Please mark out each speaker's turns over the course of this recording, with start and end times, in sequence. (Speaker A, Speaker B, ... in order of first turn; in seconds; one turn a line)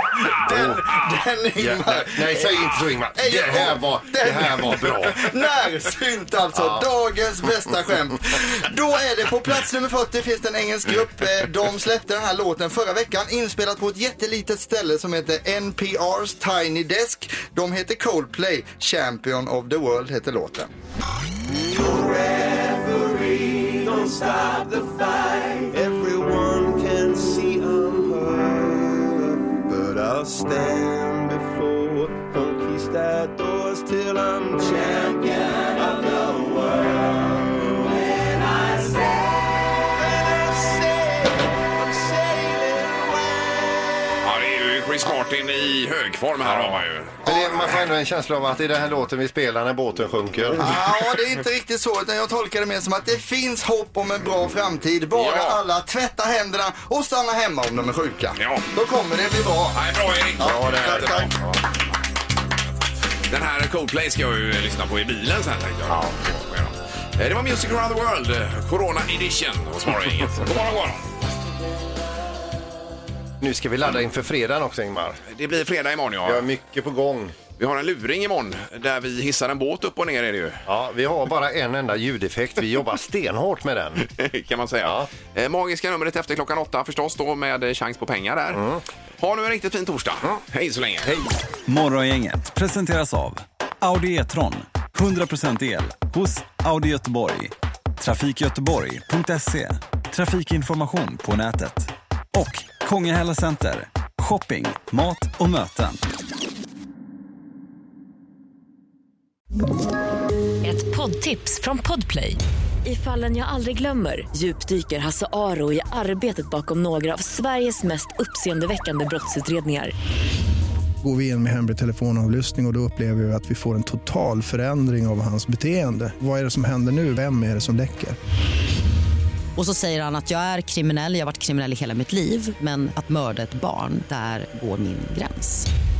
Speaker A: 0.2-20.7
Speaker B: 0.4-0.8
Speaker B: 1.6-5.2
Speaker B: 6.5-6.8
Speaker C: 21.7-44.3
Speaker D: 44.2-47.1
Speaker B: 46.4-50.7
Speaker A: 47.3-47.7
Speaker A: 50.6-59.8
Speaker D: 50.7-51.0
Speaker D: 55.1-55.6
Speaker D: 58.4-58.7
Speaker D: 59.7-61.4
Speaker A: 60.4-61.3
Speaker D: 63.3-71.0
Speaker B: 65.9-66.2
Speaker B: 73.4-75.2
Speaker D: 75.3-76.4
Speaker B: 76.2-77.4
Speaker D: 77.6-80.6
Speaker B: 80.7-84.0
Speaker D: 84.0-88.6
Speaker B: 84.8-85.1
Speaker B: 88.5-88.8
Speaker D: 89.2-91.1
Speaker E: 91.7-106.0
Speaker F: 110.6-119.9
Speaker G: 121.0-128.2
Speaker H: 129.6-135.7